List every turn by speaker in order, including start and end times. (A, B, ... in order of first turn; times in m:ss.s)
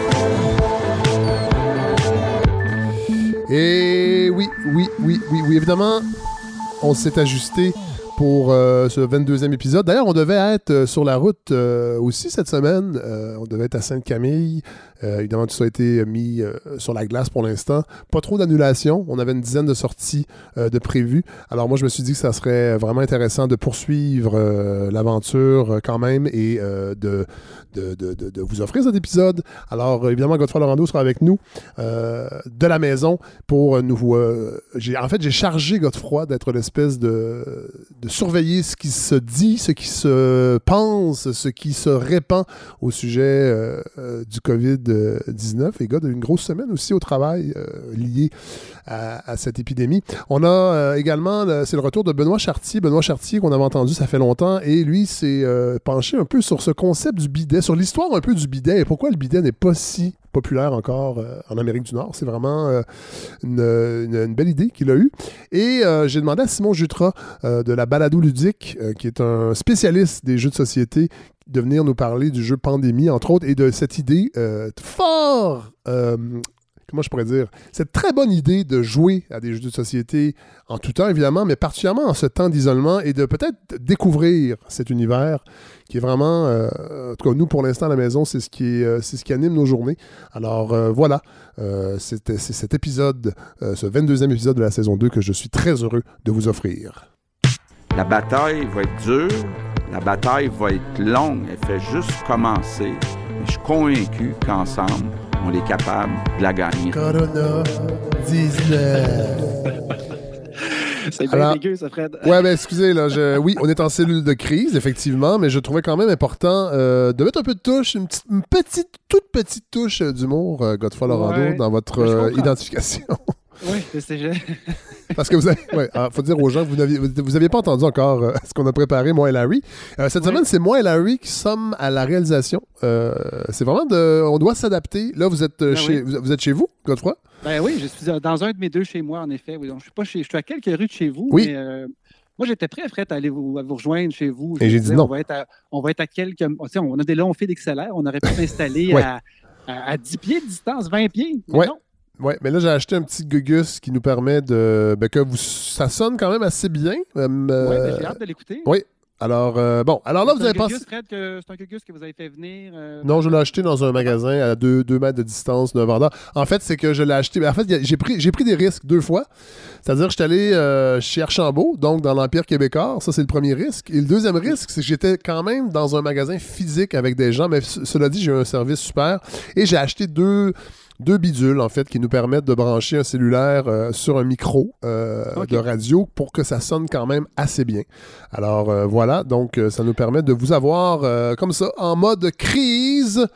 0:03.5-0:06.1 A
0:06.8-0:48.3 A
0:48.8-1:02.8 A
1:03.4-1:37.0 A
1:37.9-1:47.1 B
1:46.9-1:49.6 A
1:50.9-1:52.4 C
1:51.3-1:51.6 A
1:52.2-2:03.4 A
2:01.1-2:02.5 C
2:03.6-2:04.8 C
2:05.1-2:17.2 A
2:15.7-2:16.0 C
2:17.4-2:31.8 C
2:24.6-2:25.1 A
2:31.5-2:40.8 A
2:37.6-2:38.7 C
2:40.2-2:44.1 C
2:43.0-2:49.3 A
2:49.8-3:13.3 A
3:05.3-3:05.6 C